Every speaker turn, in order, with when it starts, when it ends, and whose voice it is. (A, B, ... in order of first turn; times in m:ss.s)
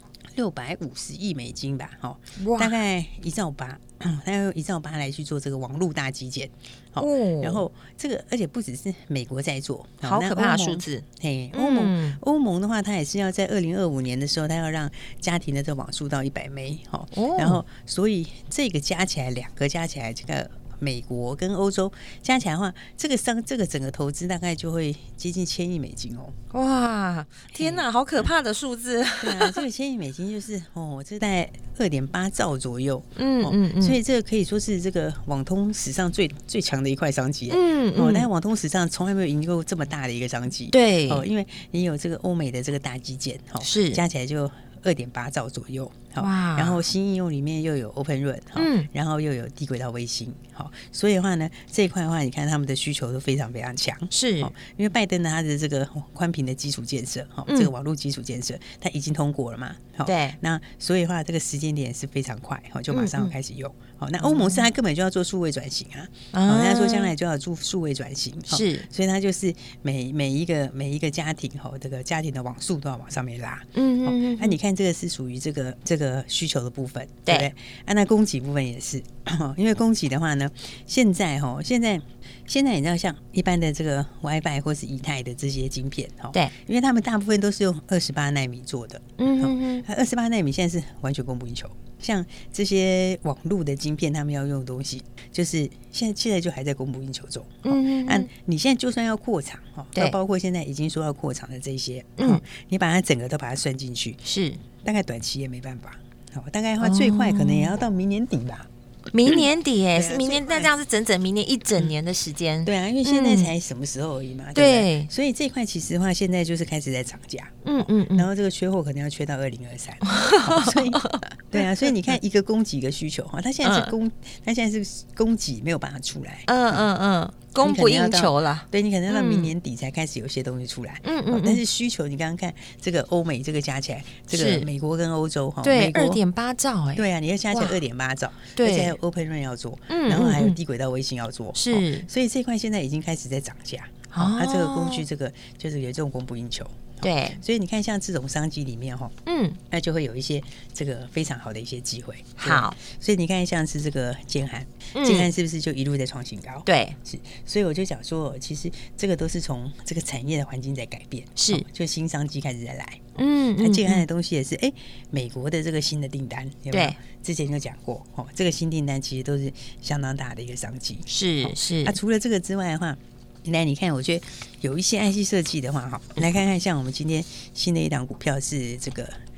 0:00.3-0:26.4 A
0:02.4-0:02.8 B
0:07.0-0:07.6 B
0:10.0-0:12.2 B
0:17.1-0:17.6 B
0:26.5-0:29.6 B
0:27.5-0:27.9 A
0:29.2-1:44.2 A
0:33.2-0:34.0 B
0:37.5-0:38.3 B
0:40.7-0:41.3 B
0:43.6-0:44.0 B
0:46.2-0:46.8 B
0:48.6-0:48.9 B
0:54.1-0:54.5 B
1:00.0-1:00.4 B
1:02.9-1:03.3 B
1:04.2-1:04.6 B
1:06.3-1:07.1 B
1:08.5-1:08.9 B
1:13.8-1:14.6 B
1:29.2-1:29.9 B
1:37.6-1:38.3 B
1:42.2-1:42.4 B
1:44.2-1:44.6 B
1:44.8-1:48.7 A
1:46.8-1:47.7 B
1:49.1-1:53.5 B
1:50.0-1:50.7 A
1:52.6-2:06.9 A
1:54.6-1:55.1 B
1:57.6-1:58.3 B
2:00.1-2:01.6 B
2:03.6-2:03.9 B
2:06.5-2:09.5 B
2:07.6-2:16.2 A
2:11.0-2:11.6 B
2:14.3-2:14.7 B
2:15.6-2:17.8 B
2:17.0-2:29.2 A
2:18.6-2:19.0 B
2:19.9-2:20.6 B
2:21.6-2:22.1 B
2:24.1-2:25.0 B
2:27.0-2:27.4 B
2:29.3-2:29.6 B
2:29.7-2:59.2 A
2:32.4-2:32.8 B
2:34.9-2:35.3 B
2:36.7-2:37.0 B
2:41.4-2:41.6 B
2:43.2-2:44.0 B
2:46.7-2:47.0 B
2:51.1-2:52.0 B